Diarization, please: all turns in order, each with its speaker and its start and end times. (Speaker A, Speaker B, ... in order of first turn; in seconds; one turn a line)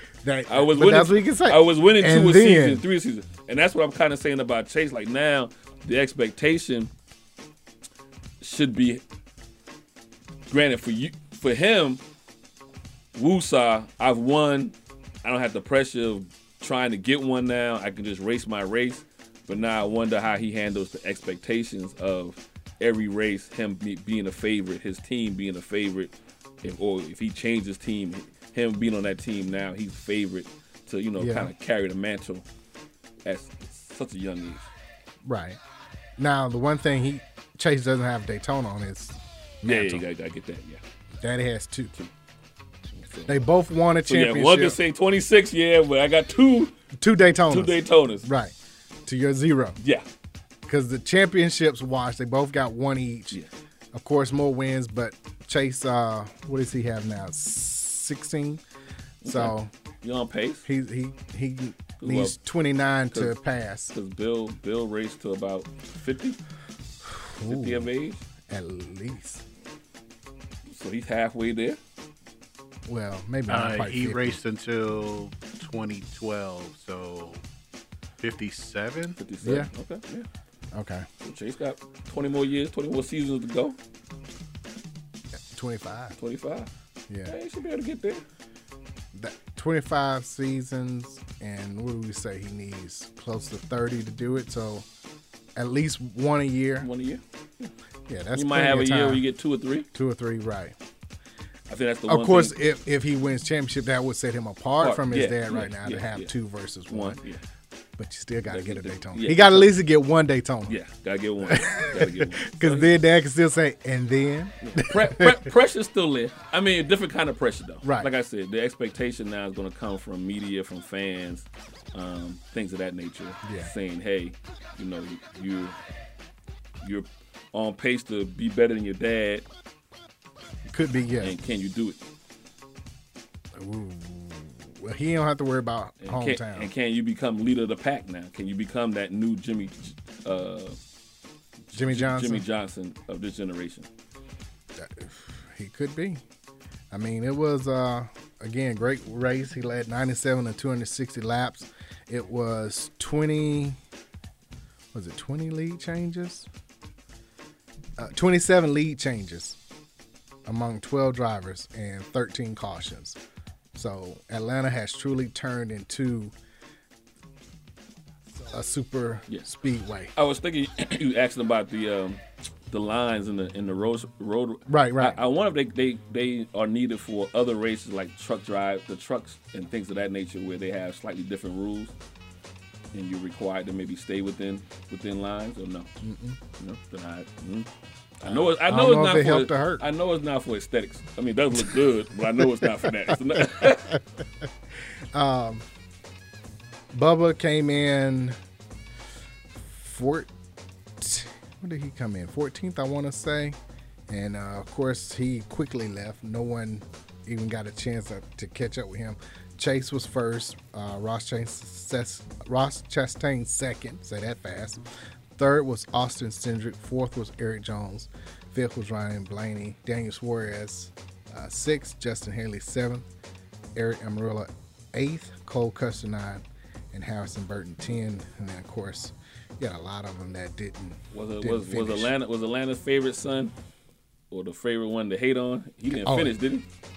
Speaker A: 0.2-2.8
Speaker B: 0.5-6.9
Speaker B: 8.4-9.0
Speaker B: 10.5-12.0
Speaker B: 13.2-26.1
Speaker B: 26.6-32.5
Speaker A: 31.2-31.5
Speaker B: 33.2-34.7
Speaker A: 35.2-35.6
Speaker A: 36.2-40.0
Speaker B: 39.6-40.8
Speaker A: 41.2-41.9
Speaker B: 43.0-43.4
Speaker A: 43.3-44.8
Speaker B: 44.0-46.7
Speaker A: 47.0-48.5
Speaker B: 47.5-48.3
Speaker A: 49.1-49.8
Speaker B: 49.8-50.1
Speaker A: 50.7-53.4
Speaker A: 53.9-58.6
Speaker B: 59.2-60.6
Speaker A: 59.3-59.7
Speaker A: 60.6-63.9
Speaker B: 62.0-62.4
Speaker B: 63.1-63.4
Speaker B: 63.9-66.4
Speaker A: 67.0-67.9
Speaker B: 67.5-68.2
Speaker A: 68.5-69.4
Speaker B: 70.7-71.8
Speaker A: 72.9-74.4
Speaker C: 73.5-77.4
Speaker C: 78.2-79.2
Speaker B: 79.2-80.3
Speaker A: 79.4-79.7
Speaker A: 80.7-81.1
Speaker B: 81.2-83.8
Speaker A: 85.5-86.2
Speaker B: 86.2-86.7
Speaker A: 87.1-87.4
Speaker B: 87.3-88.2
Speaker A: 89.1-94.9
Speaker A: 95.6-96.9
Speaker B: 96.8-97.7
Speaker A: 98.1-99.2
Speaker B: 98.3-99.9
Speaker A: 99.9-100.8
Speaker B: 101.7-102.6
Speaker A: 102.1-107.2
Speaker B: 104.8-106.3
Speaker B: 106.9-107.4
Speaker A: 108.0-110.8
Speaker B: 108.5-109.8
Speaker B: 110.7-112.9
Speaker A: 111.4-115.5
Speaker B: 114.6-125.8
Speaker A: 117.8-118.1
Speaker A: 123.4-123.7
Speaker B: 126.8-129.5
Speaker A: 130.7-131.3
Speaker B: 131.2-132.0
Speaker A: 133.6-136.7
Speaker B: 136.0-140.8
Speaker B: 141.7-143.9
Speaker A: 141.7-142.4
Speaker A: 144.8-146.2
Speaker A: 146.9-153.8
Speaker A: 154.9-156.5
Speaker A: 158.0-159.6
Speaker A: 160.5-163.2
Speaker A: 163.8-166.3
Speaker A: 168.5-170.1
Speaker B: 170.2-181.9
Speaker A: 174.7-175.2
Speaker B: 182.9-185.9
Speaker A: 186.0-186.4
Speaker B: 186.6-187.7
Speaker B: 188.2-194.0
Speaker A: 188.2-189.8
Speaker A: 192.4-194.0
Speaker A: 195.1-195.7
Speaker A: 196.9-198.4
Speaker A: 199.6-200.3
Speaker A: 201.0-203.6
Speaker A: 204.1-214.8
Speaker A: 215.4-223.1
Speaker A: 223.8-232.1
Speaker B: 231.1-233.5
Speaker B: 234.3-236.7
Speaker A: 236.0-236.3